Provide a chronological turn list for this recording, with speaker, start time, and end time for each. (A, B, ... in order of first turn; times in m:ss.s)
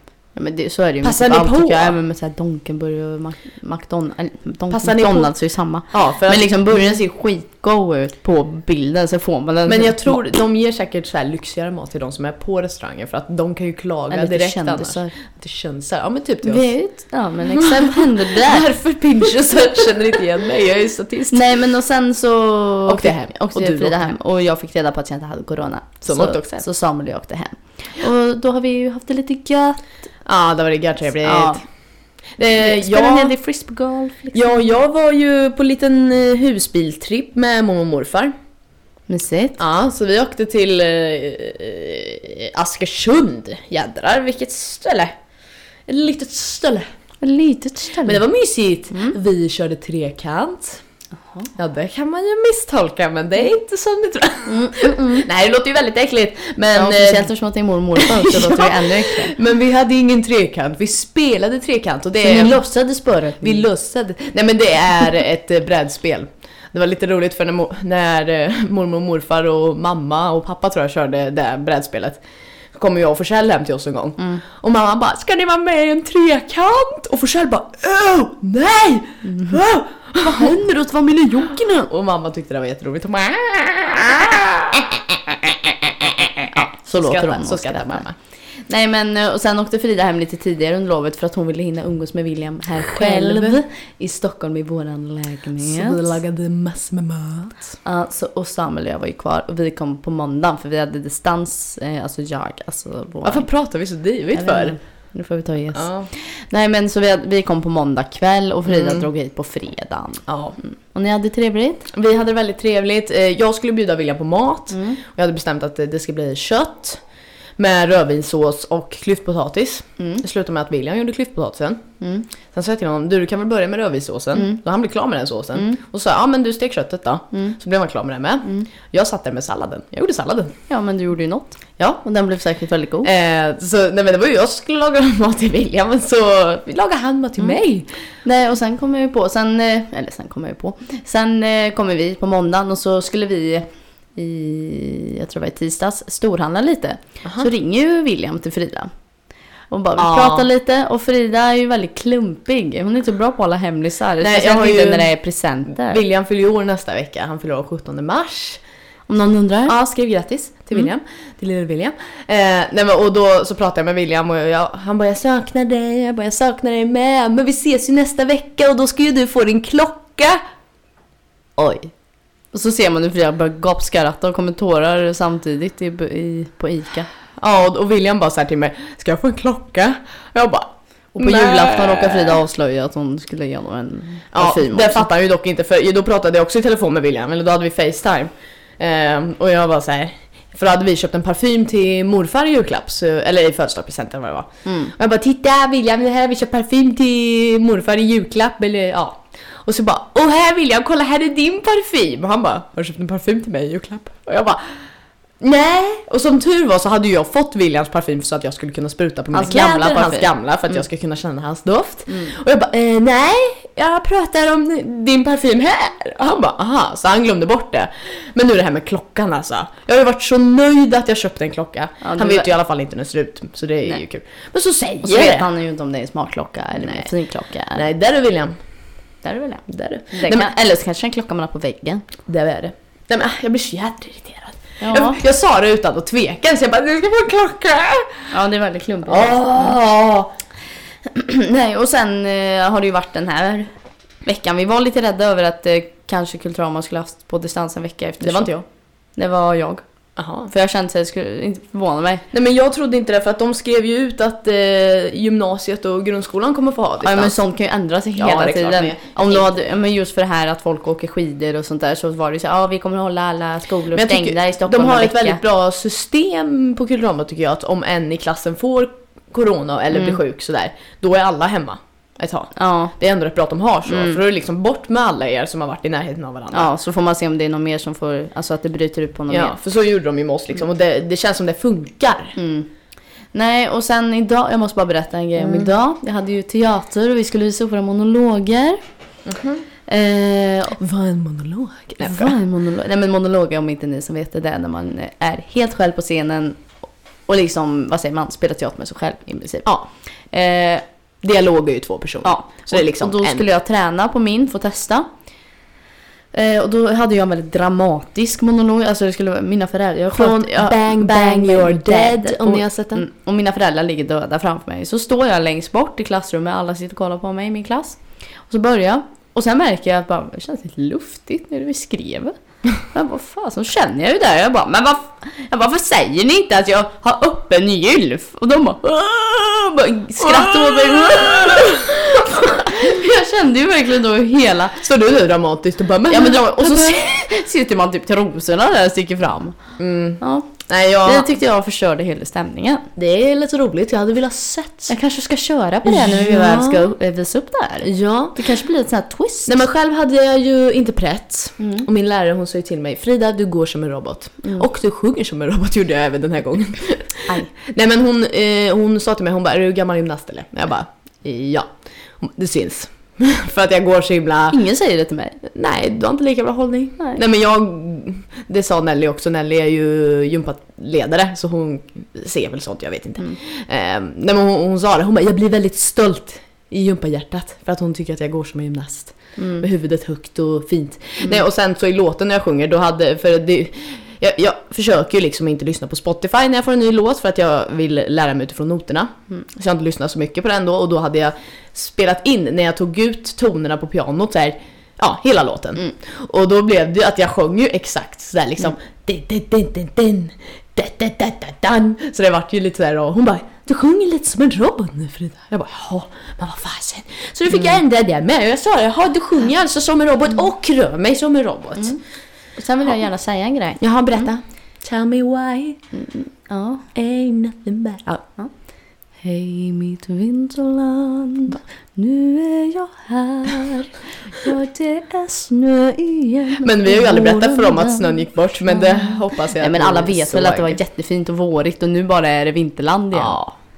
0:00.4-0:10.2 A
0:01.0-0:02.0 B
0:04.7-0:05.3 B
0:05.9-0:07.0 B
0:09.7-0:16.7 B
0:14.1-0:15.1 A
0:16.4-0:18.7 A
0:17.6-0:21.4 B
0:21.3-0:29.8 A
0:22.9-0:24.1 B
0:26.0-0:26.6 B
0:30.2-0:31.6 B
0:31.2-0:31.6 A
0:32.4-0:33.3 B
0:32.6-0:34.6 A
0:34.3-0:38.3 B
0:39.1-0:39.6 A
0:39.6-0:45.1 B
0:45.9-0:46.9 B
0:47.2-0:48.2 A
0:48.0-0:50.8 B
0:51.6-0:57.3 B
0:54.5-0:55.3 A
0:56.7-0:59.4 A
0:58.0-1:02.6 B
1:02.2-1:03.6 A
1:03.4-1:12.2 B
1:12.7-1:20.6 B
1:19.2-1:19.6 A
1:20.2-1:21.9 A
1:21.9-1:28.2 B
1:26.6-1:28.0 A
1:28.7-1:36.0 A
1:32.8-1:33.6 B
1:35.6-1:37.7 B
1:37.8-1:43.5 A
1:43.2-1:44.8 B
1:44.3-1:51.9 A
1:45.7-1:46.1 B
1:48.7-1:49.1 B
1:50.3-1:50.6 B
1:51.9-1:57.0 B
1:54.7-1:55.0 A
1:57.6-2:01.8 B
2:00.0-2:00.2 A
2:02.0-2:02.3 A
2:02.5-2:10.5 B
2:10.7-2:13.1 A
2:13.0-2:17.9 B
2:18.2-2:28.9 A
2:27.2-2:27.5 B
2:29.7-2:36.0 A
2:30.0-2:30.5 B
2:34.2-2:35.1 B
2:35.8-2:38.6 B
2:39.1-2:39.8 A
2:39.7-2:50.4 B
2:51.6-2:51.9 B
2:52.5-2:57.1 A
2:57.4-3:02.4 B
3:01.2-3:05.1 A
3:04.3-3:24.6 B
3:14.7-3:14.9 A
3:25.4-3:45.5 B
3:29.3-3:30.3 A
3:32.1-3:32.3 A
3:42.0-3:42.5 A
3:45.0-3:47.9 A
3:46.8-3:47.1 B
3:47.7-3:48.6 B
3:49.2-3:52.0 A
3:49.7-3:50.5 B
3:52.3-3:58.1 B
3:54.8-3:55.2 A
3:58.3-3:59.8 A
3:59.1-4:00.3 B
4:01.1-4:03.7 A
4:04.2-4:08.6 A
4:08.2-4:08.6 B
4:09.2-4:09.8 A
4:10.2-4:10.5 B
4:10.5-4:12.2 A
4:12.3-4:17.4 B
4:17.0-4:25.4 A
4:18.2-4:19.5 B
4:23.9-4:36.7 B
4:29.9-4:30.2 A
4:32.6-4:32.9 A
4:33.9-4:34.2 A
4:36.5-4:39.6 A
4:39.3-4:42.4 B
4:42.4-4:42.7 A
4:43.3-4:48.8 A
4:45.4-4:45.7 B
4:49.3-4:49.6 B
4:49.9-4:50.8 A
4:50.8-4:52.4 B
4:52.0-4:56.6 A
4:57.3-4:59.7 A
5:00.3-5:00.8 A
5:01.2-5:03.4 B
5:02.2-5:05.1 A
5:06.3-5:18.0 A
5:10.1-5:13.0 B
5:18.5-5:34.8 A
5:30.2-5:32.9 B
5:34.8-5:37.2 B
5:36.1-5:39.6 A
5:39.8-5:41.3 B
5:40.2-5:40.5 A
5:41.0-5:42.9 A
5:43.0-5:44.9 B
5:44.9-5:49.6 A
5:45.8-5:46.9 B
5:47.8-5:48.4 B
5:49.5-6:01.7 B
5:51.6-5:51.9 A
6:02.2-6:04.6 B
6:04.5-6:05.4 A
6:05.4-6:52.0 B
6:19.4-6:19.7 A
6:52.6-6:54.3 A
6:53.8-6:55.8 B
6:56.0-6:56.9 A
6:57.0-6:58.2 B
6:59.2-7:08.1 A
7:06.6-7:10.8 B
7:08.7-7:13.4 A
7:13.1-7:13.5 B